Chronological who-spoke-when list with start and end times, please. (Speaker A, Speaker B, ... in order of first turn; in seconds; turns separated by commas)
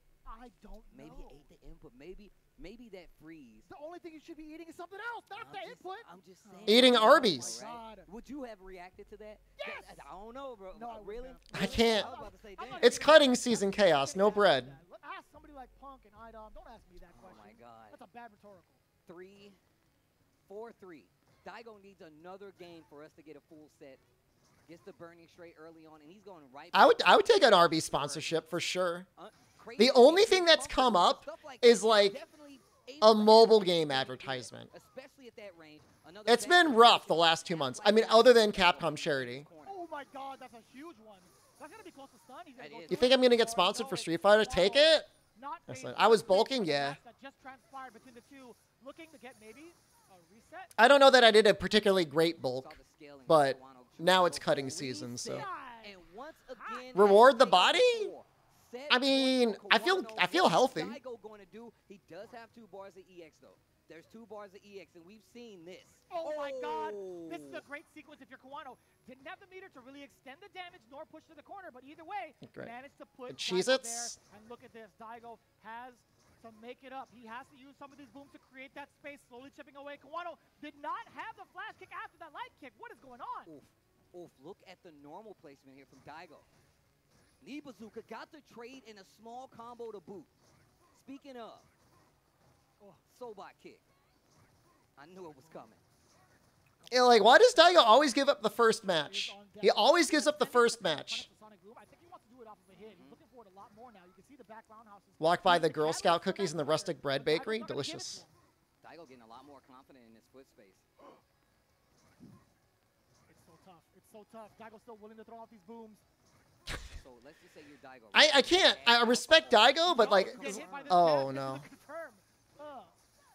Speaker A: 0.2-1.4, Speaker B: 0.9-3.7, Speaker A: 3.6-8.1, Speaker B: 5.3-13.1, Speaker C: 6.7-7.5, Speaker A: 9.6-10.1, Speaker A: 10.7-18.8, Speaker C: 11.5-12.1, Speaker C: 12.8-14.8, Speaker B: 17.1-18.0, Speaker B: 19.1-19.6, Speaker B: 20.4-24.0, Speaker B: 24.6-28.6, Speaker C: 26.7-29.1, Speaker B: 29.1-39.8, Speaker C: 29.8-32.2, Speaker C: 33.0-34.7, Speaker C: 36.3-39.5, Speaker A: 39.6-50.7, Speaker B: 42.6-43.2, Speaker C: 42.9-45.1, Speaker C: 45.7-47.0, Speaker C: 50.8-55.5, Speaker B: 52.4-67.6, Speaker A: 55.3-56.0, Speaker A: 56.5-56.9, Speaker C: 56.9-58.1, Speaker C: 58.9-61.0, Speaker A: 66.1-83.5, Speaker C: 72.4-72.7, Speaker C: 73.3-74.2, Speaker B: 83.5-86.5, Speaker B: 87.4-90.3, Speaker B: 90.9-91.7, Speaker B: 93.1-93.8, Speaker B: 95.0-95.8, Speaker A: 95.3-95.7, Speaker A: 96.8-98.1, Speaker C: 96.9-101.3, Speaker A: 98.8-108.3, Speaker B: 102.7-103.2, Speaker C: 105.2-108.2, Speaker B: 108.8-110.8, Speaker A: 113.3-116.0, Speaker B: 116.9-121.1, Speaker C: 118.1-121.7, Speaker A: 119.8-122.9